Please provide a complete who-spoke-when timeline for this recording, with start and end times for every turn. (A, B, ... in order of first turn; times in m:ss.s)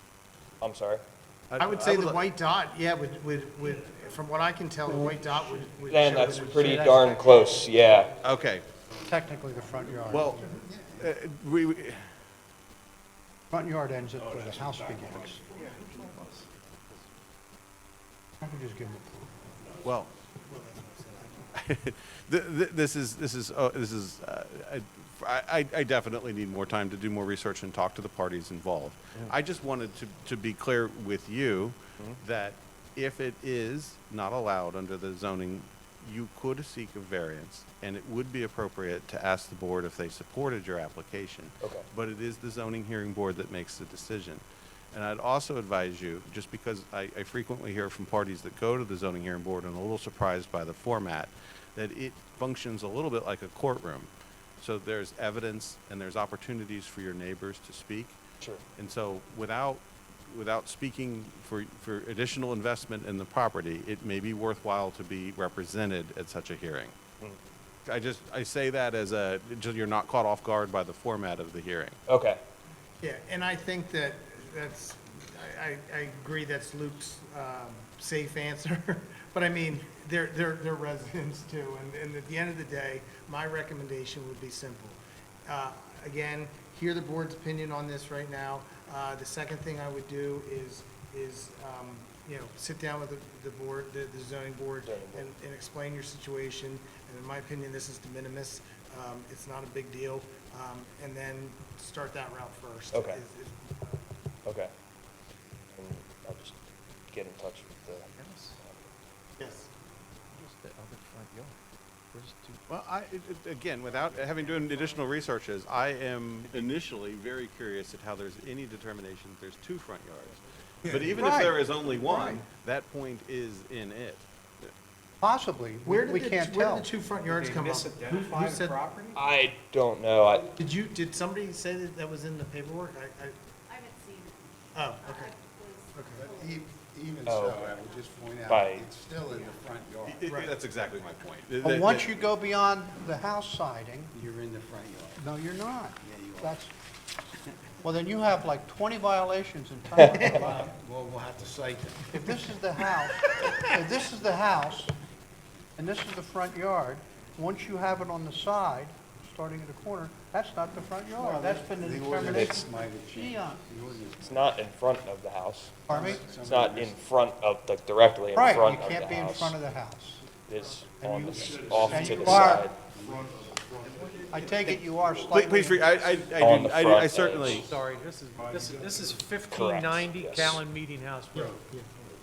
0:00.6-0:01.0 A
0:01.5-0:02.2 B
0:01.6-0:06.8 C
0:04.9-0:07.7 D
0:05.9-0:08.1 A
0:08.2-0:08.6 B
0:09.0-0:10.6 D
0:10.1-0:12.0 B
0:10.5-0:11.1 E
0:13.5-0:15.4 D
0:15.5-0:16.5 F
0:18.4-0:19.4 D
0:19.8-0:20.1 B
0:20.5-0:21.5 C
0:21.5-0:58.2 B
0:58.8-1:06.9 B
1:07.8-1:12.0 B
1:12.1-1:12.4 A
1:13.0-1:44.0 C
1:34.8-1:35.3 A
1:42.9-1:43.2 A
1:44.4-1:44.7 A
1:45.7-1:48.1 A
1:48.1-1:48.6 F
1:49.4-1:49.7 C
1:50.3-1:51.6 F
1:52.1-1:52.6 F
1:52.7-2:04.7 B
2:01.1-2:02.4 D
2:05.2-2:06.9 D
2:05.8-2:08.8 C
2:07.2-2:09.2 F
2:09.2-2:10.5 A
2:10.6-2:13.4 C
2:13.7-2:14.5 G
2:14.7-2:15.3 C
2:15.0-2:16.7 G
2:15.9-2:16.3 C
2:16.2-2:20.3 E
2:17.2-2:17.7 A
2:18.5-2:18.9 A
2:20.0-2:22.1 B
2:20.3-2:20.5 C
2:21.6-2:24.1 D
2:24.1-2:25.2 E
2:25.2-2:26.7 D
2:26.0-2:26.5 E
2:27.8-2:30.7 D
2:30.3-2:32.2 E
2:32.1-2:34.9 D
2:35.8-2:43.6 D
2:41.2-2:44.4 E
2:42.2-2:42.7 A
2:44.2-2:49.6 A
2:45.9-2:46.2 D
2:45.9-2:47.0 E
2:48.3-2:50.2 D
2:50.5-2:52.8 A
2:51.0-2:52.7 D
2:52.9-2:53.7 E
2:53.8-2:54.7 F
2:54.3-2:55.9 D
2:55.3-2:57.7 B
2:56.4-2:57.7 A
2:57.4-3:01.6 F
2:59.5-3:00.6 A
3:01.3-3:01.9 C